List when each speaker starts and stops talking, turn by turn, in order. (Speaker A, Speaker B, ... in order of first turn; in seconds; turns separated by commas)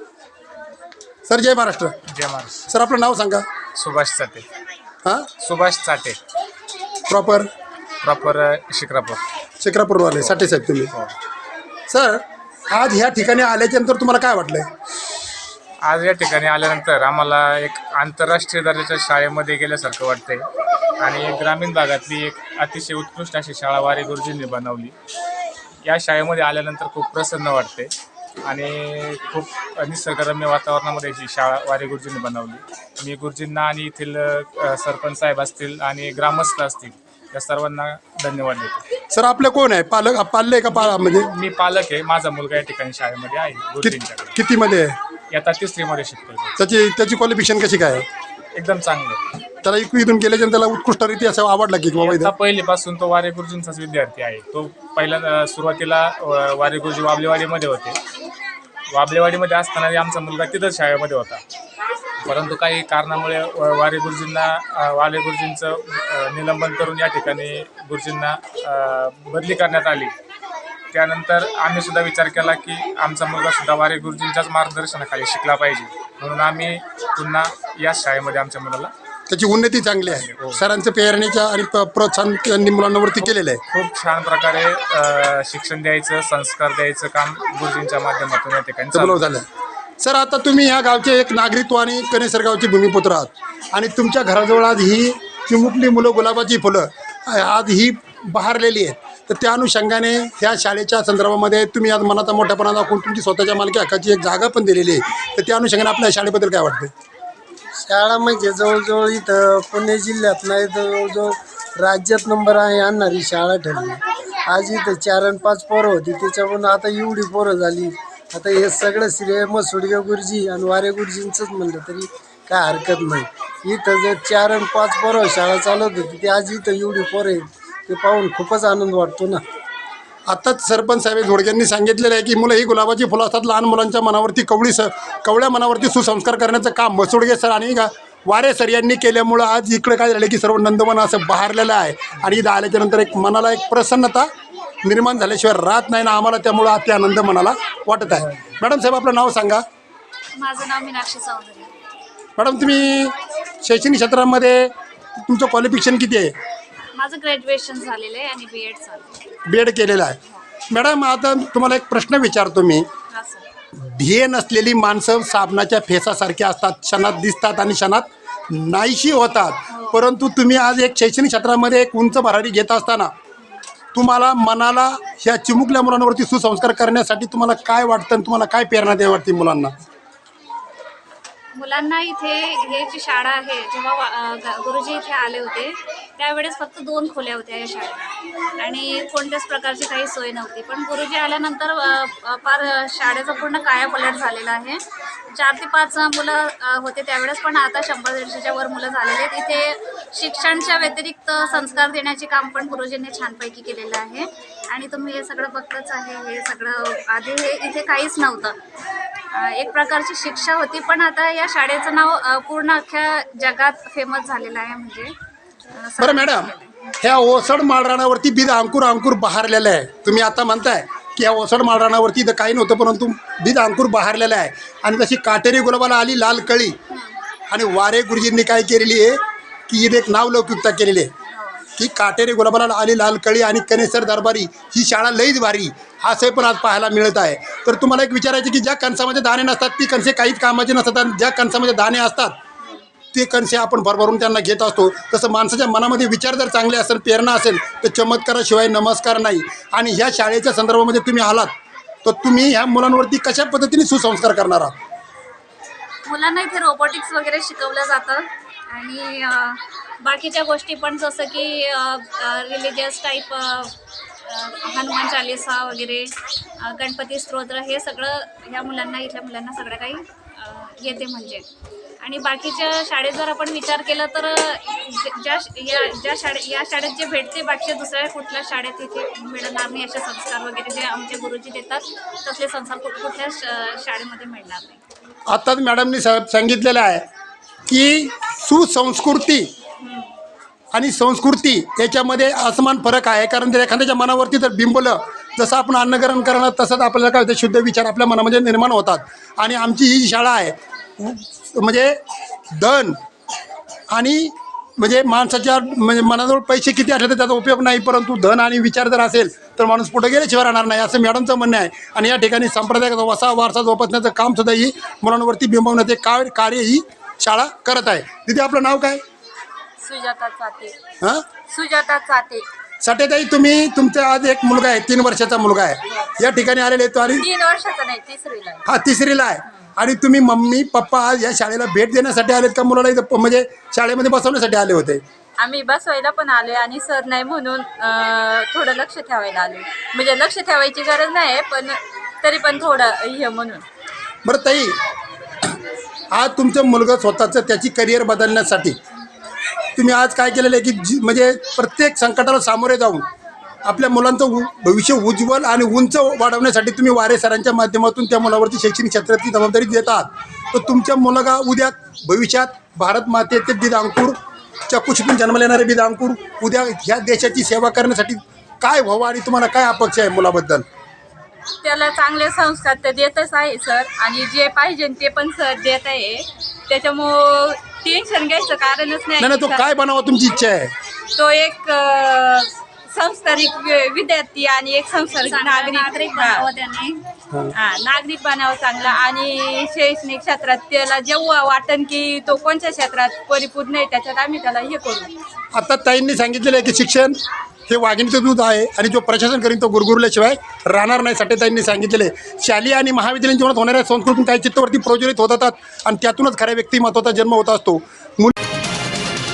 Speaker A: 1.3-1.9, Speaker B: 2.1-2.6, Speaker A: 2.7-3.4, Speaker B: 3.8-4.4, Speaker B: 5.4-6.2, Speaker A: 7.1-7.5, Speaker B: 8.0-9.2, Speaker A: 9.6-10.9, Speaker B: 10.2-11.1, Speaker A: 11.9-14.7, Speaker B: 15.8-20.5, Speaker B: 21.0-24.9, Speaker B: 25.8-27.9, Speaker B: 28.4-38.8, Speaker A: 39.1-41.3, Speaker B: 40.7-44.3, Speaker A: 43.8-44.9, Speaker B: 45.3-46.5, Speaker A: 46.6-48.0, Speaker B: 48.5-49.2, Speaker A: 49.6-52.3, Speaker B: 52.0-58.0, Speaker B: 58.9-61.4, Speaker B: 62.2-70.1, Speaker B: 70.9-78.9, Speaker A: 79.3-83.6, Speaker B: 80.0-80.6, Speaker B: 83.2-89.2, Speaker A: 88.9-89.4, Speaker A: 90.0-106.9, Speaker C: 107.8-129.4, Speaker A: 130.3-144.2, Speaker A: 144.8-149.6, Speaker D: 150.3-151.8, Speaker A: 152.4-156.3, Speaker D: 156.9-159.2, Speaker A: 159.5-160.2, Speaker A: 160.7-162.8, Speaker D: 163.1-163.4, Speaker A: 163.8-173.1, Speaker D: 169.7-170.0, Speaker A: 173.9-179.7, Speaker D: 181.5-194.8, Speaker D: 195.3-208.5, Speaker D: 209.3-215.1, Speaker D: 215.7-216.6, Speaker A: 216.0-226.8, Speaker D: 226.9-227.2, Speaker A: 227.5-229.2, Speaker A: 229.7-231.1, Speaker D: 231.3-231.6, Speaker A: 231.8-242.3, Speaker A: 243.1-251.5, Speaker A: 252.0-254.7, Speaker D: 256.1-263.7, Speaker D: 264.2-271.4, Speaker D: 272.0-284.8, Speaker A: 285.3-287.0, Speaker A: 287.7-289.5, Speaker D: 289.8-290.1, Speaker A: 290.7-302.0, Speaker A: 302.6-303.0, Speaker A: 303.9-319.0, Speaker E: 319.8-320.8, Speaker E: 321.5-322.4, Speaker A: 322.8-327.2, Speaker E: 325.9-326.2, Speaker E: 327.2-328.6, Speaker A: 328.7-335.0, Speaker E: 335.4-343.6, Speaker A: 344.2-344.8, Speaker A: 346.1-348.8, Speaker A: 349.8-353.0, Speaker A: 353.6-364.1, Speaker A: 364.7-370.6, Speaker E: 371.6-379.7, Speaker A: 379.2-380.7, Speaker E: 381.1-386.4, Speaker D: 385.2-387.0, Speaker E: 387.5-395.1, Speaker A: 395.5-397.1, Speaker A: 397.7-408.3